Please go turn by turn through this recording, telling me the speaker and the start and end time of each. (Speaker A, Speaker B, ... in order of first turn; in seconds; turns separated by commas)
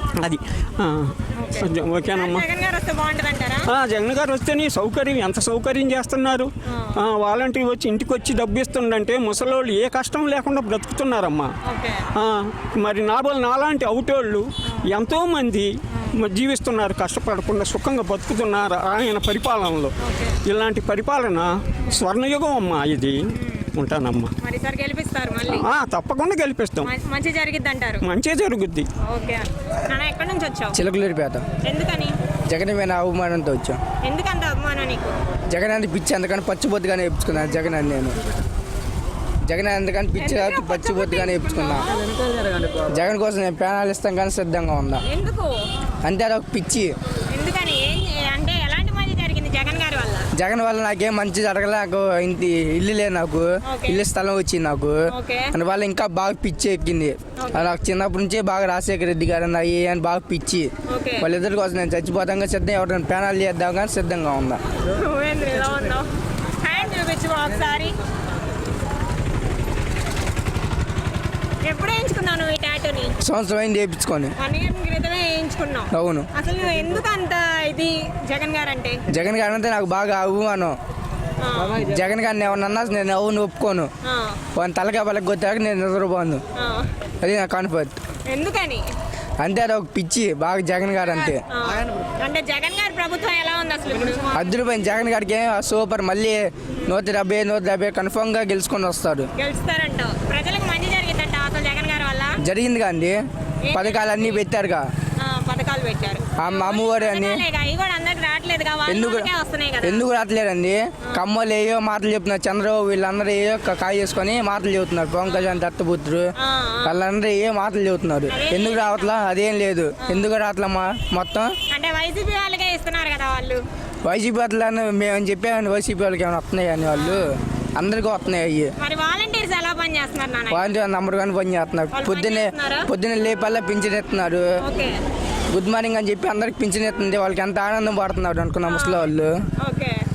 Speaker A: 0.2-2.4, Speaker B: 1.4-3.7, Speaker A: 3.7-11.5, Speaker B: 6.7-7.0, Speaker B: 11.7-12.1, Speaker A: 12.1-19.9, Speaker B: 20.0-20.4, Speaker A: 20.4-23.2, Speaker A: 23.8-24.3, Speaker B: 24.4-25.7, Speaker A: 25.4-26.9, Speaker B: 26.8-28.0, Speaker A: 28.0-28.9, Speaker B: 29.1-30.8, Speaker C: 30.7-31.4, Speaker B: 31.6-32.1, Speaker C: 32.5-33.8, Speaker B: 34.0-35.2, Speaker C: 35.5-38.2, Speaker C: 39.5-41.9, Speaker B: 40.2-42.0, Speaker C: 42.8-45.0, Speaker B: 45.1-45.5, Speaker C: 46.0-46.9, Speaker B: 47.3-50.3, Speaker C: 50.4-55.0, Speaker B: 53.7-54.0, Speaker B: 55.1-55.5, Speaker C: 55.5-64.6, Speaker B: 57.4-57.7, Speaker B: 60.9-61.3, Speaker B: 65.0-66.1, Speaker B: 66.6-67.9, Speaker B: 71.6-73.1, Speaker C: 73.2-74.3, Speaker B: 74.4-79.0, Speaker C: 75.9-76.3, Speaker C: 79.1-80.7, Speaker B: 81.4-81.8, Speaker C: 81.8-83.9, Speaker B: 84.1-84.4, Speaker C: 84.6-86.4, Speaker B: 86.6-86.9, Speaker C: 87.2-87.9, Speaker B: 88.3-88.8, Speaker C: 89.4-91.4, Speaker B: 91.5-94.3, Speaker C: 94.3-99.3, Speaker B: 99.4-102.4, Speaker C: 102.4-103.2, Speaker B: 103.7-104.4, Speaker C: 103.7-104.9, Speaker B: 105.2-110.0, Speaker C: 106.4-107.4, Speaker C: 108.9-109.3, Speaker C: 109.8-116.3, Speaker B: 115.2-115.6, Speaker B: 116.4-117.0, Speaker C: 116.8-121.5, Speaker B: 118.3-119.2, Speaker B: 120.0-120.3, Speaker B: 121.7-123.6, Speaker C: 124.1-128.7, Speaker B: 126.9-127.4, Speaker B: 128.8-130.8, Speaker C: 130.5-134.5, Speaker B: 131.9-132.9, Speaker B: 134.6-135.0, Speaker C: 135.5-139.3, Speaker B: 138.7-140.0